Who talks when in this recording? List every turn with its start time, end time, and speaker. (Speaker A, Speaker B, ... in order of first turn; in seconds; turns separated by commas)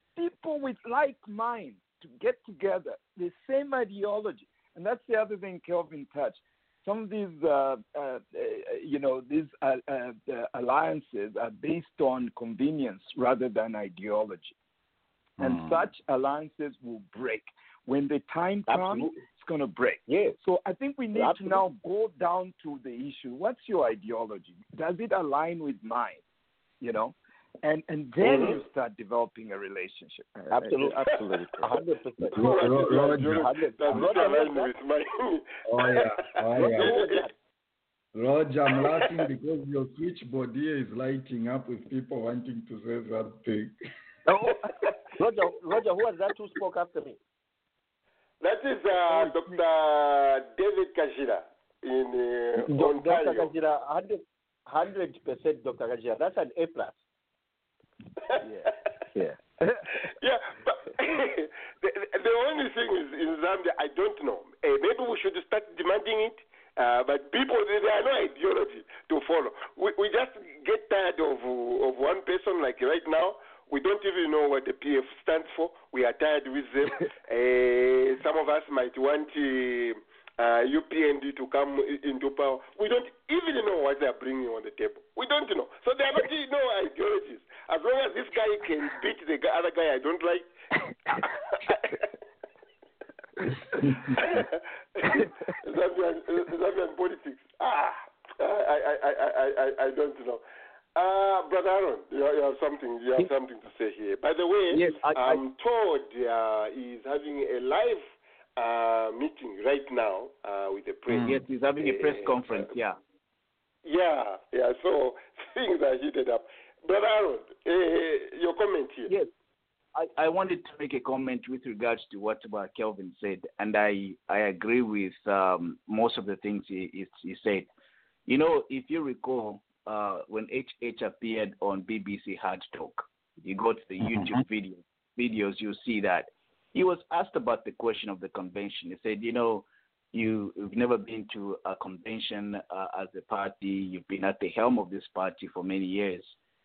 Speaker A: 0.2-14.6, Speaker B: 15.4-15.8, Speaker A: 15.4-26.2, Speaker C: 18.7-19.2, Speaker C: 20.1-20.4, Speaker C: 21.1-21.6, Speaker A: 26.8-31.7, Speaker C: 28.3-28.6, Speaker C: 30.5-34.7, Speaker B: 32.2-34.2, Speaker D: 32.3-36.1, Speaker B: 35.7-37.0, Speaker C: 36.6-37.3, Speaker D: 36.7-37.3, Speaker B: 38.1-43.7, Speaker D: 38.8-39.1, Speaker C: 45.2-47.2, Speaker D: 48.4-53.5, Speaker A: 49.0-49.6, Speaker C: 52.6-57.0, Speaker A: 58.4-60.1, Speaker D: 60.1-90.5, Speaker D: 91.6-92.0, Speaker B: 93.9-94.2, Speaker D: 94.2-100.4, Speaker D: 101.0-108.0, Speaker E: 104.7-105.4, Speaker D: 108.6-112.6, Speaker B: 111.1-111.4, Speaker E: 111.2-113.0, Speaker D: 113.8-119.1, Speaker E: 120.0-127.7, Speaker E: 128.3-146.3